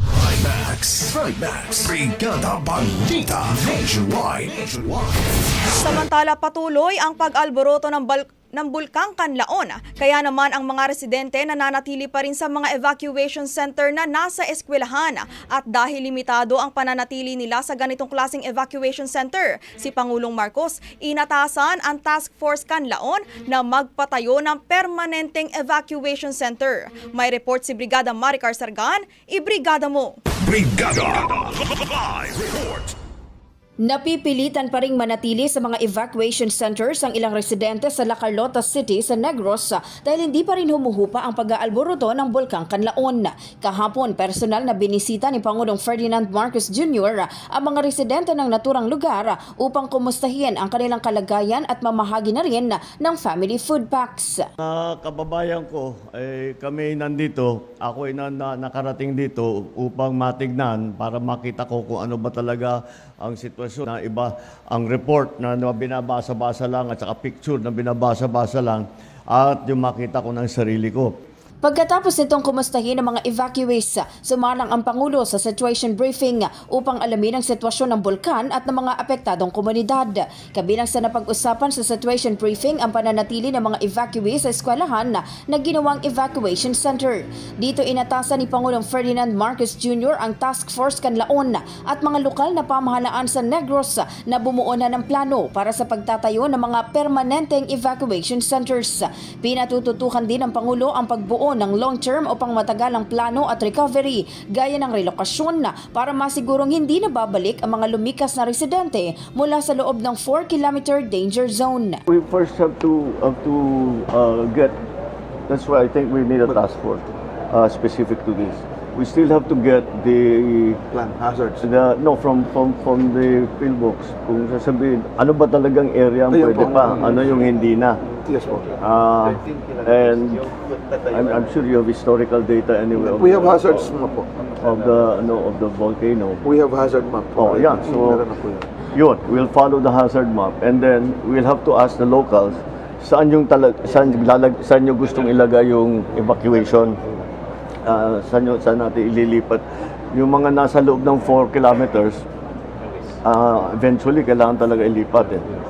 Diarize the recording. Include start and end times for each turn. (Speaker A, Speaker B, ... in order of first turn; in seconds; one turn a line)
Speaker A: 0.1-5.1
Speaker B: 5.8-30.2
Speaker A: 30.5-31.5
Speaker A: 32.1-32.9
Speaker C: 33.8-54.5
Speaker D: 54.6-71.1
Speaker C: 71.6-112.0
Speaker D: 112.1-114.8
Speaker D: 115.5-120.8
Speaker E: 120.9-121.6
Speaker D: 121.6-128.0
Speaker E: 126.3-127.2
Speaker E: 128.2-128.8
Speaker D: 128.8-130.4
Speaker E: 131.1-131.3
Speaker D: 131.1-133.8
Speaker E: 133.0-134.3
Speaker D: 134.6-136.4
Speaker E: 136.4-138.6
Speaker D: 137.3-138.3
Speaker D: 138.9-147.0
Speaker D: 147.8-152.2
Speaker D: 153.2-155.5